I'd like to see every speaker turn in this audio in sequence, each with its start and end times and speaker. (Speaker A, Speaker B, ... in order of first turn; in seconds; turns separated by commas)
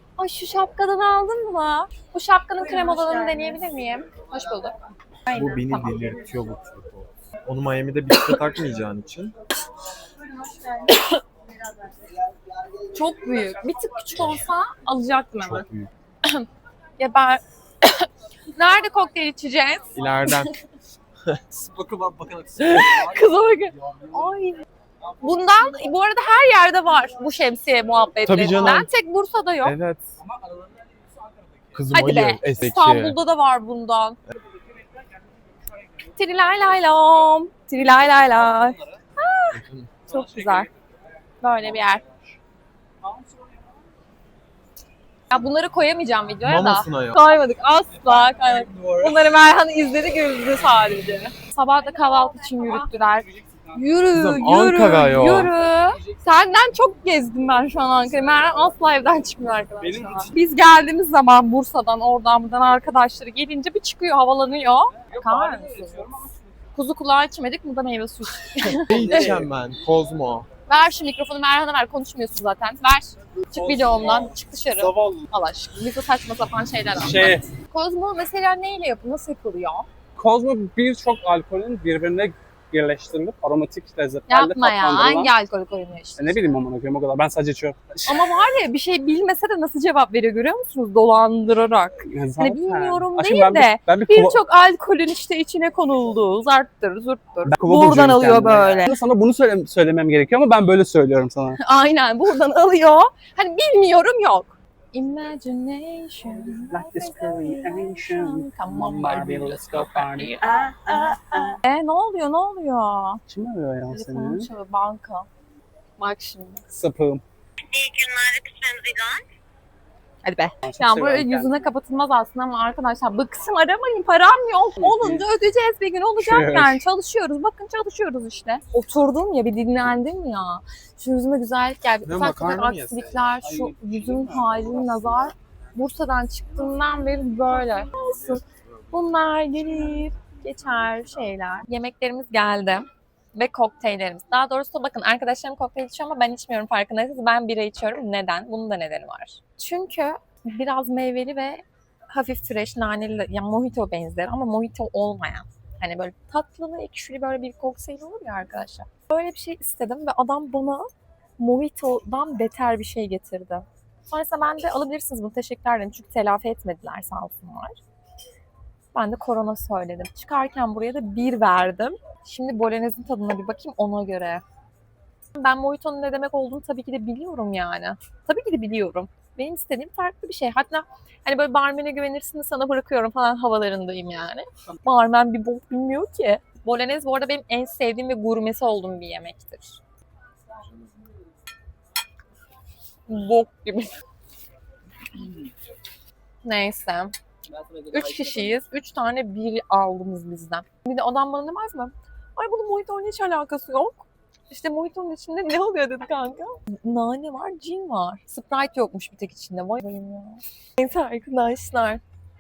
Speaker A: 0.2-4.8, Speaker A: 5.3-6.2, Speaker B: 5.3-9.3, Speaker A: 8.1-8.4, Speaker A: 10.3-11.2, Speaker A: 12.9-15.7, Speaker B: 14.2-14.4, Speaker B: 15.4-15.9, Speaker A: 17.0-20.5, Speaker B: 19.9-20.5, Speaker C: 21.5-23.3, Speaker A: 22.6-24.6, Speaker A: 25.2-29.8, Speaker B: 28.2-28.9, Speaker B: 29.6-30.2, Speaker C: 30.2-31.4, Speaker B: 31.7-33.2, Speaker A: 31.9-34.2, Speaker A: 36.1-40.7, Speaker B: 39.5-39.9, Speaker C: 40.1-40.7, Speaker A: 41.4-42.0, Speaker C: 43.0-43.7, Speaker A: 45.3-66.1, Speaker B: 46.4-47.2, Speaker C: 48.7-49.1, Speaker C: 52.8-53.8, Speaker B: 54.1-55.5, Speaker C: 59.8-60.3, Speaker C: 65.1-66.5, Speaker A: 66.8-69.4, Speaker B: 68.8-70.5, Speaker C: 68.9-69.4, Speaker A: 70.7-79.9, Speaker C: 73.5-75.3, Speaker C: 77.0-77.5, Speaker C: 80.2-85.3, Speaker A: 84.3-86.5, Speaker C: 86.2-88.3, Speaker A: 88.1-99.0, Speaker C: 92.0-94.4, Speaker C: 97.5-101.6, Speaker A: 101.6-113.2, Speaker C: 106.2-111.6, Speaker C: 113.3-114.5, Speaker A: 113.9-115.3, Speaker A: 116.0-116.7, Speaker C: 116.7-117.2, Speaker A: 117.7-119.2, Speaker A: 120.2-160.9, Speaker C: 120.6-121.6, Speaker C: 124.8-125.2, Speaker C: 126.2-126.8, Speaker B: 132.1-133.0, Speaker C: 132.1-132.8, Speaker C: 133.4-134.8, Speaker A: 161.4-167.7, Speaker A: 168.9-174.4, Speaker A: 175.3-189.8, Speaker A: 193.1-193.9, Speaker A: 196.4-197.1, Speaker A: 197.8-212.0